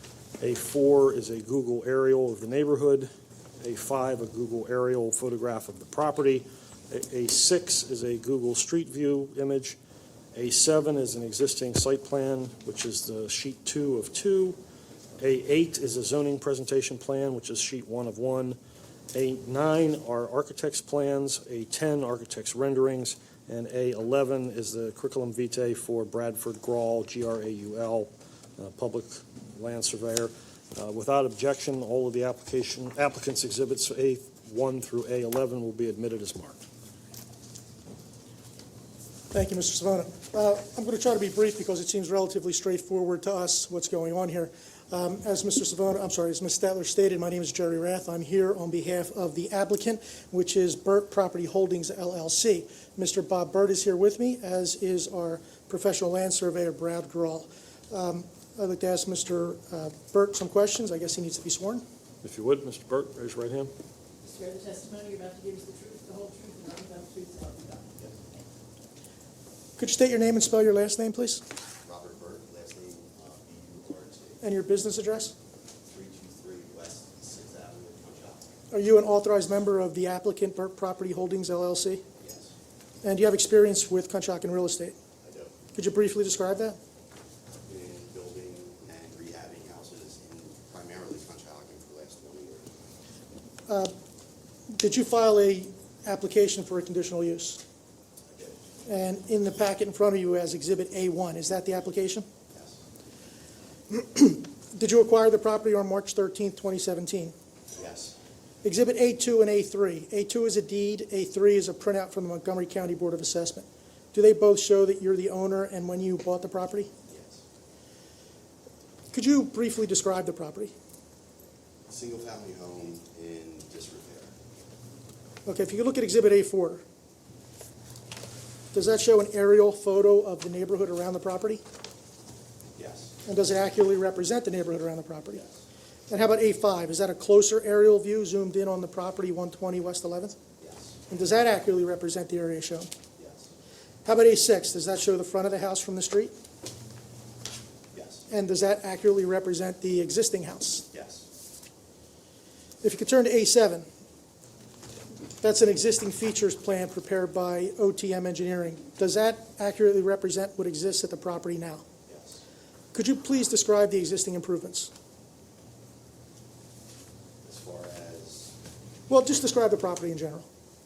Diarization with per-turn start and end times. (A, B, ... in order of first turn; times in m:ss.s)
0:00.4-0:03.1 A
0:03.6-0:09.8 A
0:10.3-0:14.6 A
0:15.2-0:18.6 A
0:19.1-0:36.6 A
0:39.3-1:01.8 B
1:02.2-1:03.7 A
1:04.2-1:08.0 C
1:09.8-1:11.4 B
1:11.8-1:14.4 D
1:14.4-1:15.3 B
1:15.8-1:18.4 D
1:18.7-1:22.0 B
1:22.2-1:22.5 D
1:23.0-1:25.0 B
1:25.2-1:25.6 D
1:25.8-1:26.8 B
1:27.7-1:32.7 D
1:33.7-1:33.9 B
1:34.7-1:37.6 B
1:38.3-1:38.6 D
1:38.9-1:42.2 B
1:42.5-1:42.8 D
1:43.9-1:47.3 B
1:47.7-1:48.2 D
1:48.6-1:56.9 B
1:57.1-1:57.4 D
1:59.1-2:00.7 B
2:01.9-2:04.3 D
2:05.4-2:06.8 B
2:08.7-2:11.6 B
2:12.8-2:13.2 D
2:13.2-2:15.4 B
2:16.1-2:20.4 B
2:20.6-2:21.0 D
2:21.1-2:22.9 B
2:23.2-2:23.5 D
2:24.0-2:26.3 B
2:27.9-2:28.2 D
2:28.3-2:30.9 B
2:30.9-2:31.2 D
2:32.8-2:33.9 B
2:35.4-2:41.8 B
2:42.1-2:42.4 D
2:42.9-2:44.9 B
2:47.4-2:48.6 D
2:49.1-2:50.5 B